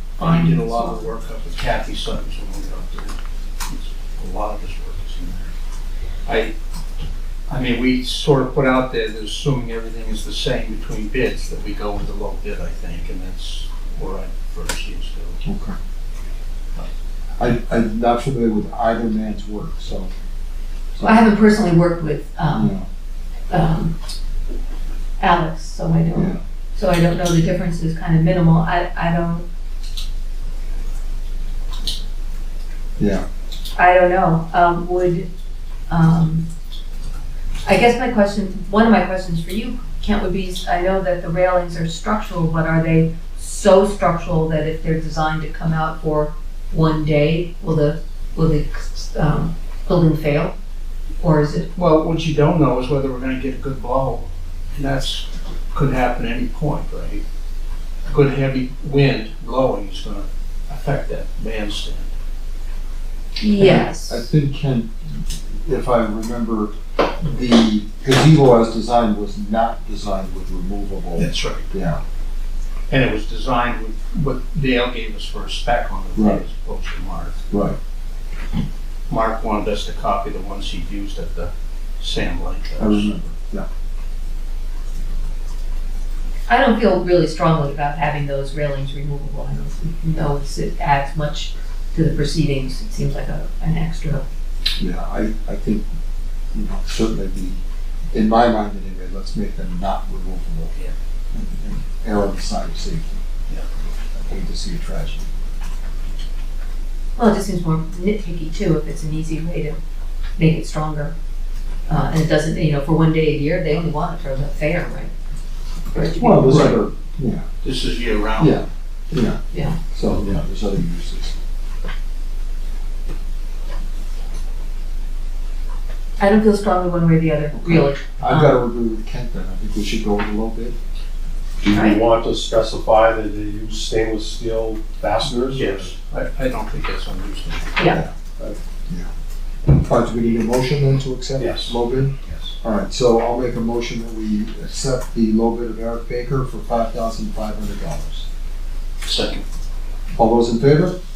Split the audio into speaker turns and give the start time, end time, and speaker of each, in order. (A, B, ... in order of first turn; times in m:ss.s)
0:00.2-0:01.1 A
0:00.2-0:05.5 B
0:06.3-0:06.5 B
0:07.5-0:15.4 B
0:15.4-0:15.8 C
0:17.4-0:20.1 C
0:21.0-0:21.2 C
0:21.0-0:22.7 A
0:22.5-0:22.9 C
0:23.5-0:24.0 A
0:25.2-0:29.5 A
0:26.1-0:26.4 C
0:33.0-0:33.2 C
0:33.8-0:35.3 A
0:35.9-0:36.5 A
0:37.6-0:50.6 A
0:51.2-0:51.7 A
0:51.8-0:57.2 B
0:58.1-1:02.1 B
1:03.4-1:04.3 A
1:03.6-1:12.0 C
1:11.2-1:11.7 B
1:12.9-1:17.4 B
1:16.2-1:16.4 C
1:17.5-1:17.8 C
1:19.1-1:23.3 B
1:22.8-1:23.7 C
1:26.5-1:34.3 A
1:34.8-1:35.9 C
1:36.5-1:37.6 C
1:38.1-1:40.7 C
1:41.3-1:43.2 C
1:44.1-1:45.3 C
1:47.2-1:49.8 A
1:50.4-1:51.1 A
1:51.9-1:55.1 A
1:55.9-1:56.8 A
1:56.0-1:57.4 C
1:56.4-1:56.8 B
1:57.6-1:58.6 B
1:58.4-1:59.4 C
1:59.5-1:59.8 A
1:59.9-2:01.4 C
2:06.2-2:08.6 A
2:07.5-2:10.8 C
2:11.6-2:15.9 D
2:11.7-2:12.0 A
2:15.5-2:17.8 B
2:17.8-2:18.0 A
2:19.7-2:28.3 C
2:21.4-2:21.8 D
2:22.3-2:22.5 B
2:29.0-2:29.4 B
2:30.1-2:31.0 C